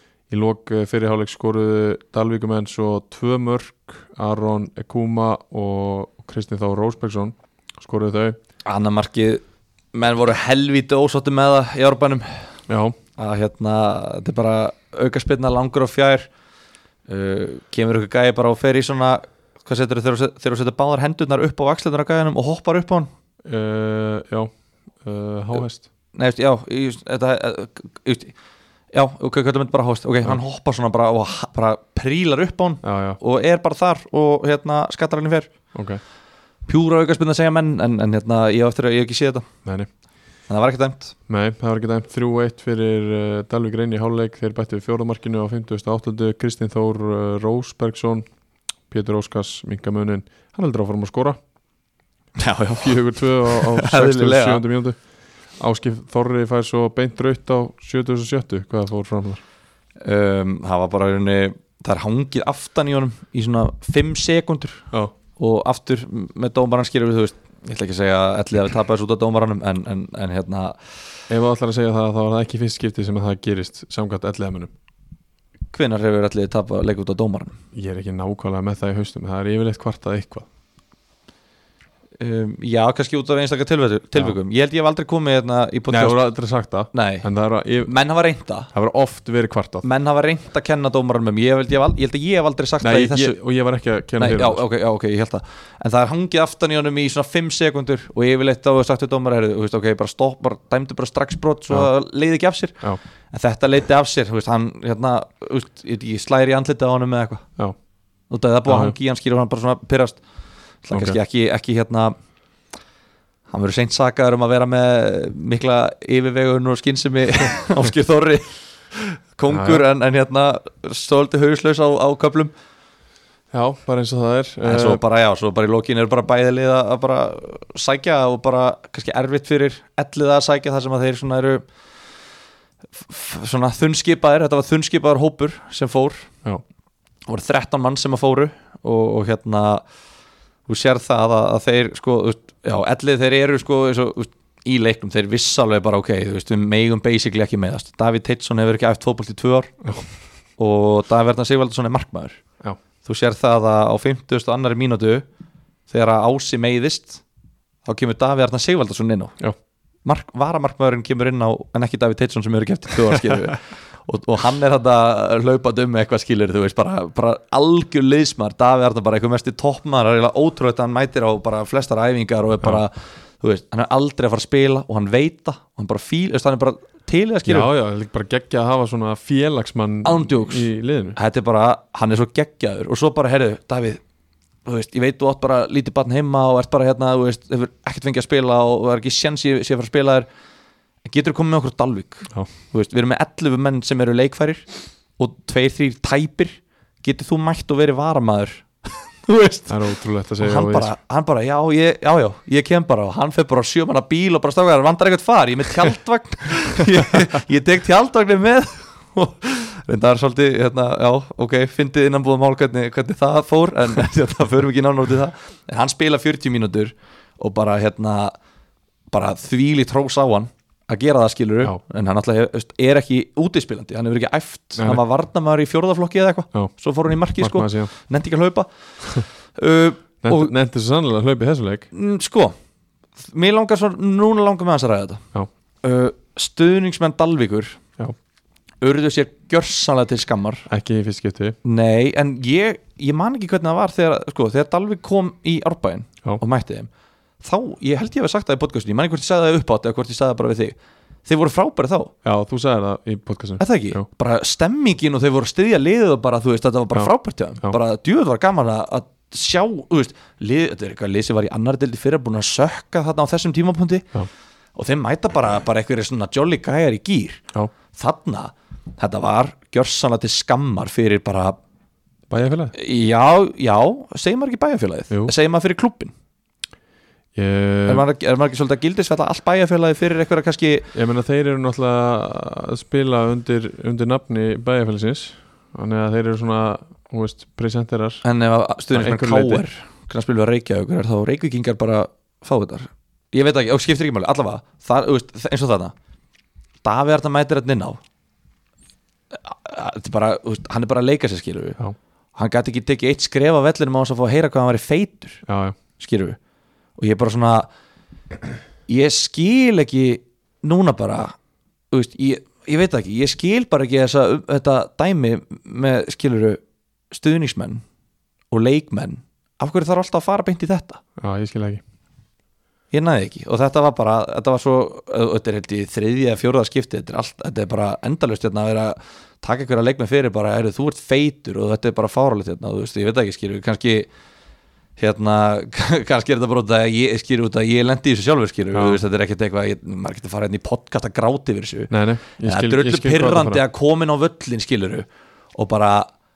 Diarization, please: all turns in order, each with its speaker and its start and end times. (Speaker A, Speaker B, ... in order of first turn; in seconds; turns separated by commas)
Speaker A: 0.3-8.4, Speaker B: 8.7-12.5, Speaker A: 12.7-12.9, Speaker B: 13.2-16.3, Speaker B: 17.1-23.1, Speaker A: 23.4-24.5, Speaker A: 25.0-25.9, Speaker B: 26.1-28.3, Speaker B: 28.9-35.5, Speaker A: 32.8-33.2, Speaker A: 35.7-36.0, Speaker B: 36.7-39.5, Speaker B: 40.5-41.1, Speaker A: 41.3-48.2, Speaker A: 48.9-51.4, Speaker B: 52.4-54.6, Speaker A: 52.8-55.0, Speaker A: 55.6-59.4, Speaker B: 60.0-70.8, Speaker A: 71.3-74.7, Speaker B: 75.7-77.5, Speaker A: 77.7-80.5, Speaker B: 82.2-86.3, Speaker A: 85.9-87.9, Speaker B: 86.9-87.3, Speaker B: 87.8-88.7, Speaker A: 88.7-89.8, Speaker B: 89.8-93.4, Speaker A: 92.8-94.6, Speaker B: 94.2-107.4, Speaker B: 108.3-110.2, Speaker A: 108.7-109.0, Speaker B: 110.8-112.2, Speaker A: 110.9-111.2, Speaker B: 113.5-122.5, Speaker A: 119.5-119.8, Speaker A: 123.5-125.0, Speaker B: 124.6-131.6, Speaker B: 133.0-136.3, Speaker B: 137.3-139.8, Speaker B: 140.7-149.9, Speaker B: 150.6-152.4, Speaker B: 153.0-155.2, Speaker B: 155.9-157.2, Speaker B: 157.8-159.4, Speaker B: 160.0-177.7, Speaker A: 177.4-181.2, Speaker B: 180.0-184.0, Speaker B: 184.6-190.3, Speaker B: 191.0-194.7, Speaker B: 195.2-199.8, Speaker A: 199.7-200.9, Speaker B: 200.4-218.3, Speaker B: 219.1-230.5, Speaker A: 227.4-227.9, Speaker A: 230.2-231.9, Speaker B: 231.9-232.5, Speaker B: 233.3-235.2, Speaker B: 235.8-237.8, Speaker B: 238.8-240.7, Speaker A: 240.7-241.6, Speaker B: 241.6-246.9, Speaker B: 247.4-252.1, Speaker A: 252.2-254.0, Speaker B: 253.6-264.1, Speaker B: 264.8-271.6, Speaker A: 272.3-272.7, Speaker B: 272.7-276.1, Speaker A: 277.3-278.1, Speaker B: 277.9-280.9, Speaker A: 280.9-288.2, Speaker B: 288.2-295.9, Speaker A: 288.9-289.6, Speaker B: 296.8-298.0, Speaker B: 299.3-301.8, Speaker B: 302.4-305.4, Speaker A: 305.4-305.8, Speaker B: 306.0-306.4, Speaker B: 307.0-307.7, Speaker B: 308.9-311.4, Speaker B: 311.9-317.8, Speaker B: 318.5-321.0, Speaker A: 321.2-321.8, Speaker B: 322.9-334.1, Speaker B: 335.0-346.1, Speaker A: 338.7-339.0, Speaker A: 341.9-343.6